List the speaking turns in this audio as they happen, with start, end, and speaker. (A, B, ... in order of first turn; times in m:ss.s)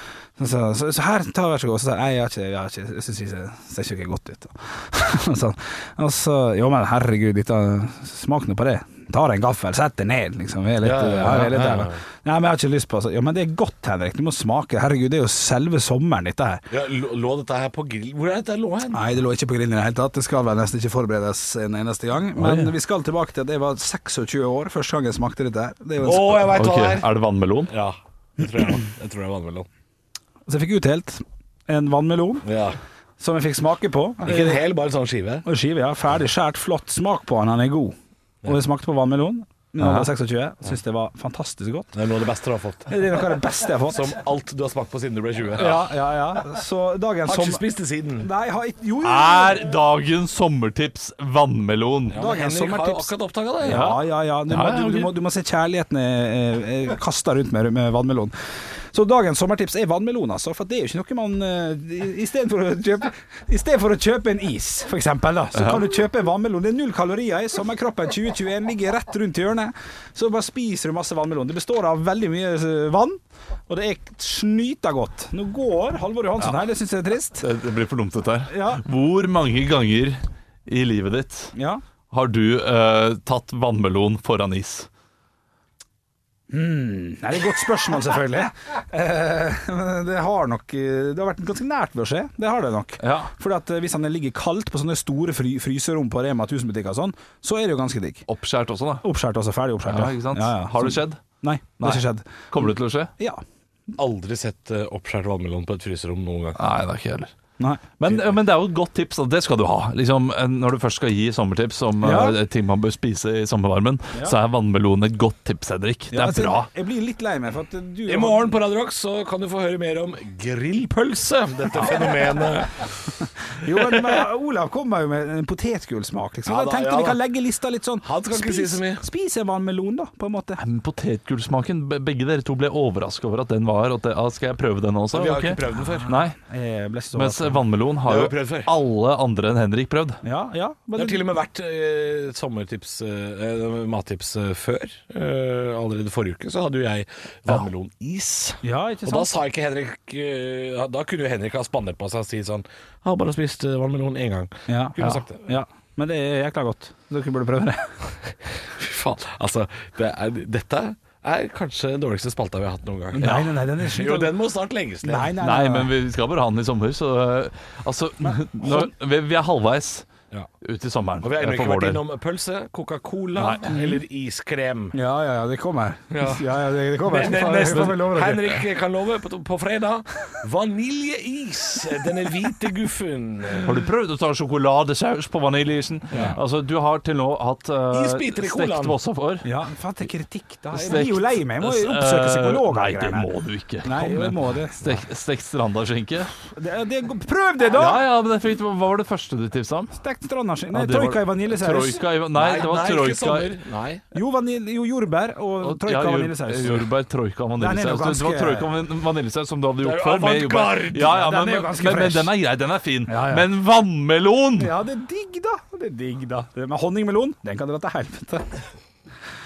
0:00.4-0:16.6 A
0:10.8-0:12.0 B
0:16.7-0:19.1 B
0:18.9-0:26.7 A
0:22.4-0:22.7 C
0:26.0-0:27.1 B
0:26.5-0:27.7 C
0:27.7-0:29.7 B
0:30.5-0:32.4 A
0:32.4-0:32.8 B
0:33.2-0:34.6 A
0:34.2-0:35.5 B
0:35.4-0:42.0 A
0:39.8-0:40.1 C
0:41.9-0:45.9 B
0:42.9-0:44.2 A
0:45.6-0:47.6 A
0:47.3-0:48.3 B
0:48.2-0:49.7 A
0:49.0-0:52.2 C
0:52.1-0:54.0 B
0:52.2-0:58.3 A
0:53.7-0:55.1 C
0:58.9-1:17.4 A
1:05.6-1:05.8 C
1:17.4-1:21.5 C
1:18.5-1:18.8 A
1:21.6-1:21.8 A
1:22.1-1:24.9 C
1:26.5-1:38.2 A
1:33.0-1:33.3 C
1:38.3-1:39.0 C
1:39.0-1:43.4 A
1:39.9-1:41.2 C
1:41.8-1:43.1 C
1:44.0-1:46.6 B
1:46.6-1:47.3 C
1:47.6-1:48.2 A
1:48.0-1:56.7 C
1:52.0-1:52.4 A
1:56.1-1:58.6 A
1:58.1-2:02.9 B
2:01.8-2:02.1 A
2:03.6-2:10.6 A
2:06.5-2:07.2 B
2:08.0-2:09.0 B
2:10.6-2:16.4 C
2:15.1-2:16.2 B
2:16.5-2:17.6 A
2:17.1-2:20.2 C
2:18.1-2:18.7 B
2:20.2-2:21.3 A
2:21.0-2:35.5 B
2:28.6-2:29.3 A
2:34.7-2:37.9 A
2:38.7-2:45.4 B
2:43.1-2:44.4 A
2:43.2-2:43.6 C
2:45.0-2:45.9 A
2:45.4-2:50.1 C
2:48.2-2:48.9 A
2:50.6-2:52.0 C
2:51.2-2:55.0 B
2:53.4-2:53.7 C
2:53.7-2:54.0 A
2:54.9-2:58.6 A
2:56.1-2:56.4 B
2:57.0-3:03.8 B
3:03.6-3:09.5 C
3:06.1-3:06.4 A
3:07.9-3:09.0 B
3:09.4-3:13.3 A
3:10.7-3:16.4 C
3:13.8-3:14.8 A
3:16.5-3:18.1 A
3:17.7-3:20.0 C
3:20.0-3:22.0 A
3:20.7-3:23.6 C
3:22.3-3:24.0 B
3:24.1-3:26.9 A
3:25.6-3:34.7 C
3:27.6-3:28.7 A
3:29.8-3:31.2 B
3:31.0-3:32.3 A
3:33.1-3:33.5 A
3:34.6-3:38.5 A